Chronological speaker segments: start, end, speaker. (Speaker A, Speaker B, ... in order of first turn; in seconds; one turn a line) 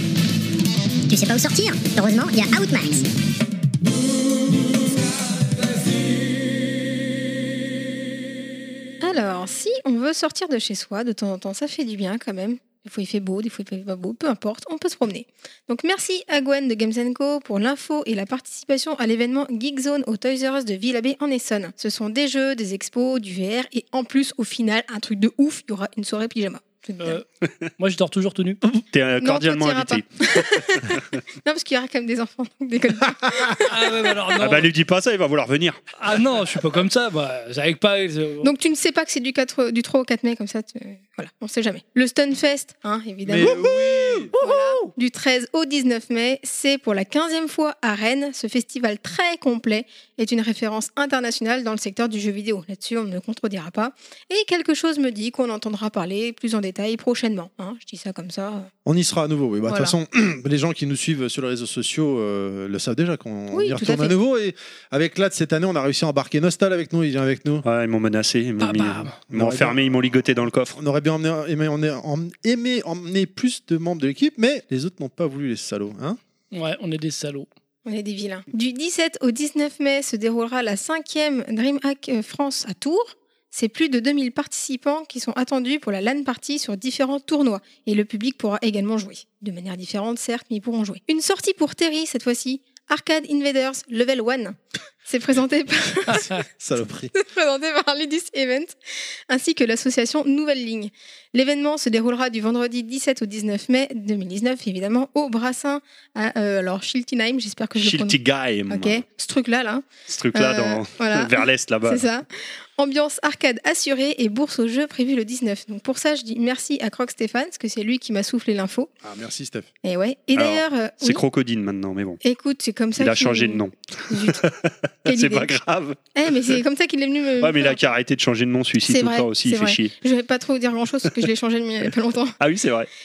Speaker A: 1.1-3.1
Speaker B: 9.0-27.2
Speaker C: 27.8-28.6
Speaker D: 28.8-31.0
Speaker B: 29.2-34.1
Speaker C: 33.6-34.7
Speaker D: 34.4-35.8
Speaker C: 36.0-38.5
Speaker B: 38.4-43.7
Speaker E: 43.2-44.3
Speaker C: 43.4-44.9
Speaker B: 44.4-58.7
Speaker E: 58.9-67.7
Speaker B: 59.7-59.9
Speaker B: 63.5-64.1
Speaker D: 67.6-70.8
Speaker C: 68.6-69.2
Speaker E: 69.3-70.1
Speaker E: 70.8-76.2
Speaker C: 76.5-77.5
Speaker B: 77.8-96.3
Speaker C: 96.1-96.4
Speaker E: 96.6-97.1
Speaker B: 97.2-98.8
Speaker B: 99.3-108.2
Speaker D: 107.8-109.0
Speaker B: 108.7-118.9
Speaker D: 110.1-112.1
Speaker E: 119.0-119.7
Speaker B: 119.8-121.2
Speaker D: 120.3-122.2
Speaker B: 122.2-124.4
Speaker D: 123.0-126.0
Speaker B: 125.1-125.5
Speaker B: 126.2-127.8
Speaker D: 127.4-129.9
Speaker B: 128.8-132.4
Speaker D: 132.4-132.9